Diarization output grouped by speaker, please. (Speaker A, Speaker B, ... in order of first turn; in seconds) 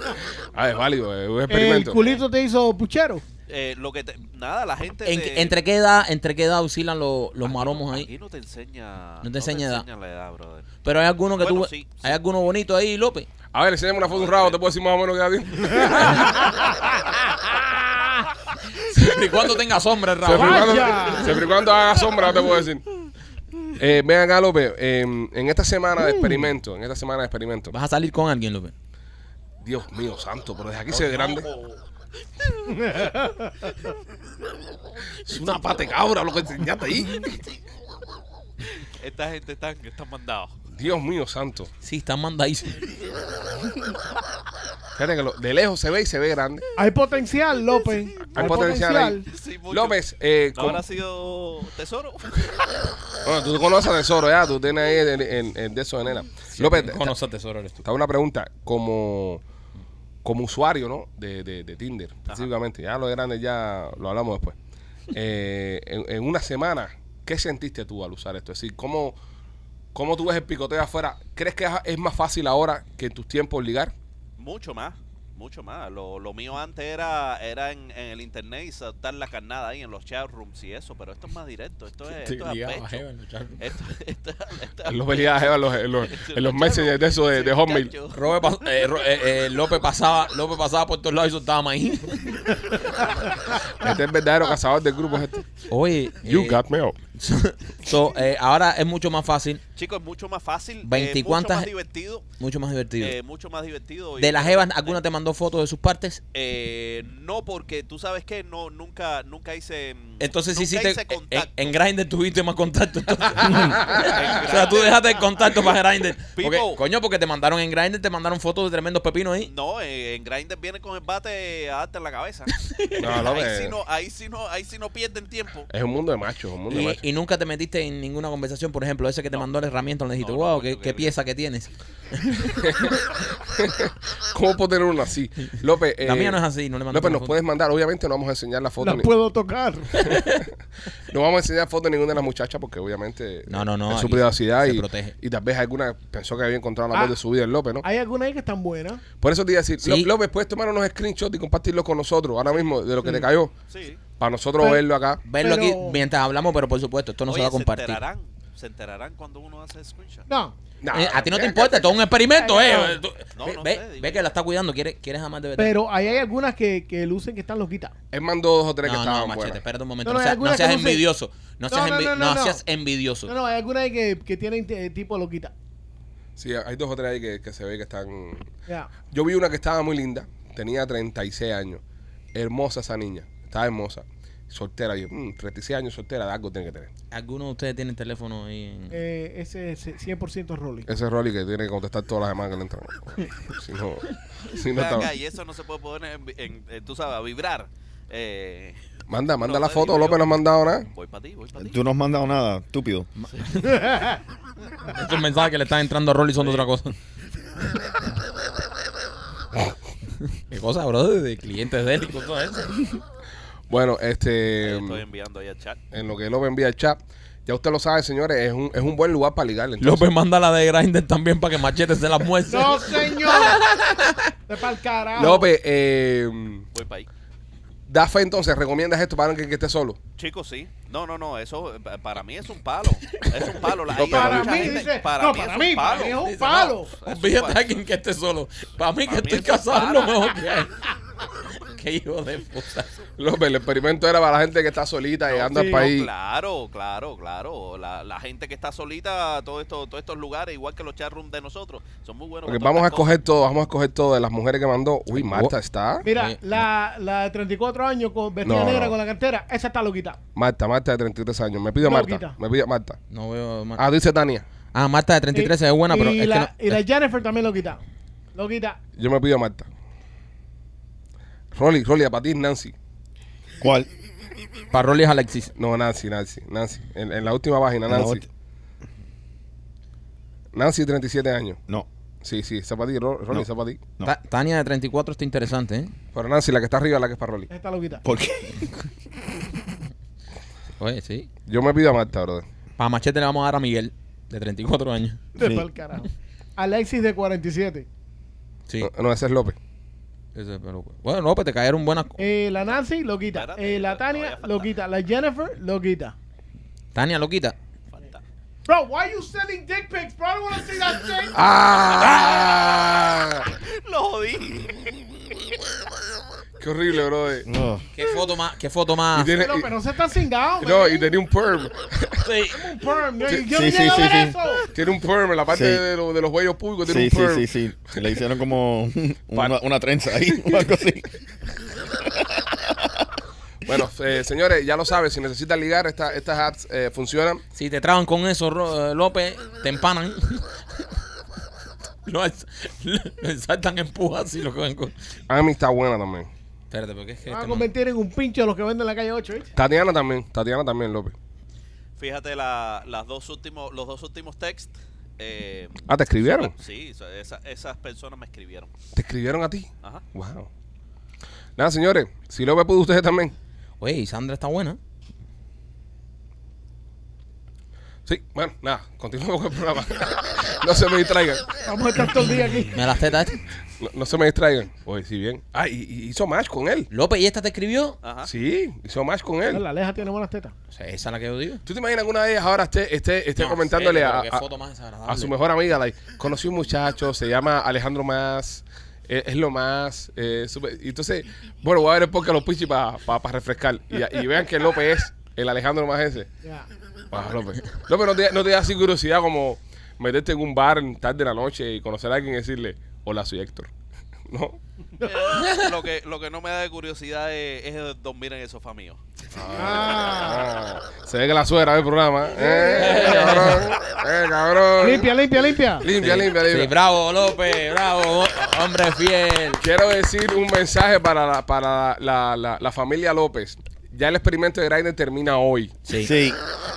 Speaker A: 0.5-2.0, 13.5-16.8, 20.2-22.8, 23.8-27.7, 29.6-31.5, 35.2-37.4, 40.7-41.7, 44.9-46.6, 48.3-50.8, 53.2-57.1, 57.8-59.4, 60.2-64.5, 65.1-69.2, 69.9-73.9, 84.8-87.9, 93.8-95.5, 96.2-97.0, 123.0-123.8, 125.7-127.0, 132.6-133.0, 133.5-136.4, 136.9-139.1, 140.0-140.4, 141.1-147.8, 149.2-153.5, 154.2-155.2, 160.8-161.9, 168.1-169.6, 176.4-178.5, 179.1-181.8, 182.3-186.9, 190.9-195.1, 199.1-200.9, 213.7-215.0, 215.9-220.1, 225.2-226.7, 227.9-230.0, 233.9-234.7, 243.2-246.1, 252.4-256.0, 258.4-258.9, 260.3-263.0, 263.8-264.4, 268.9-269.7, 271.5-272.7, 275.6-278.2, 280.5-281.6, 282.2-283.8, 286.1-287.5, 291.4-292.4, 298.8-299.6, 311.3-313.5, 316.6-317.5, 319.1-319.7, 320.6-322.3, 324.6-328.0, 330.2-330.7, 333.6-337.4, 345.3-346.3, 349.6-351.1, 355.9-356.5, 358.9-360.5, 361.6-363.3, 368.1-371.5, 373.8-376.9, 378.2-379.6, 381.6-384.4, 385.1-396.3, 397.1-403.7, 404.3-404.6, 409.3-415.1, 415.8-416.7, 419.6-425.8
Speaker B: 1.5-3.2, 20.3-21.4, 32.7-33.8, 46.8-49.3, 138.8-140.2, 146.9-147.2, 147.8-149.0, 154.6-156.0, 160.3-160.5, 162.4-163.0, 165.6-167.9, 170.0-171.0, 171.7-172.6, 173.3-175.5, 188.9-190.9, 203.6-204.2, 222.5-223.6, 224.5-225.5, 234.0-236.9, 245.5-245.9, 256.0-260.2, 261.8-262.4, 265.3-267.8, 268.3-268.8, 287.5-288.0, 295.4-297.9, 302.2-306.1, 308.7-311.4, 319.3-321.1, 322.5-324.7, 347.2-349.5, 371.6-372.8, 379.5-380.5, 405.0-405.3, 409.5-410.5, 412.4-413.0, 414.8-415.9
Speaker C: 3.5-5.5, 7.4-10.7, 11.4-12.2, 14.0-14.6, 38.8-40.5, 48.2-48.6, 49.2-50.0, 50.5-52.7, 74.4-83.0, 83.6-88.3, 99.8-102.2, 103.0-105.0, 106.3-111.7, 113.5-115.5, 116.4-116.8, 119.4-125.7, 130.2-131.1, 153.7-154.0, 157.3-160.2, 163.3-164.3, 194.7-201.8, 206.4-206.7, 214.6-215.8, 226.7-227.1, 230.2-236.3, 236.9-237.7, 239.1-240.3, 245.3-253.1, 303.3-304.7, 307.9-308.2, 311.9-313.0, 313.6-315.0, 352.0-358.7, 378.0-378.3, 405.0-409.0
Speaker D: 5.0-8.1, 9.2-9.8, 10.8-13.3, 18.8-21.1, 27.7-28.7, 30.9-31.8, 41.8-42.9, 56.5-57.8, 82.1-83.7, 88.1-92.7, 95.7-96.6, 97.2-99.6, 100.8-101.7, 102.4-103.2, 104.2-106.2, 110.2-119.5, 122.6-123.2, 126.7-132.7, 136.0-137.4, 140.1-140.3, 143.5-145.1, 149.8-150.1, 155.2-158.0, 160.9-165.8, 168.8-173.3, 187.1-188.9, 203.2-203.7, 204.9-206.9, 210.5-213.0, 219.8-224.2, 236.2-240.8, 241.4-242.9, 255.1-255.5, 256.0-256.6, 263.1-263.8, 264.7-266.8, 274.7-275.5, 284.0-285.9, 290.8-291.3, 292.8-295.2, 300.3-302.2, 306.9-307.6, 317.9-319.3, 322.2-322.6, 337.5-340.8, 342.1-344.9, 346.7-347.7, 363.8-364.8, 372.7-373.4, 376.9-378.0, 380.7-381.6, 383.4-385.3, 405.4-405.7, 412.7-413.7, 415.9-419.6, 425.9-426.1
Speaker E: 201.6-203.1, 273.6-273.9, 277.9-278.2, 288.0-288.7, 295.4-295.6, 317.4-317.8, 323.5-324.4, 325.5-325.8, 326.8-331.1, 331.8-333.1, 426.0-426.4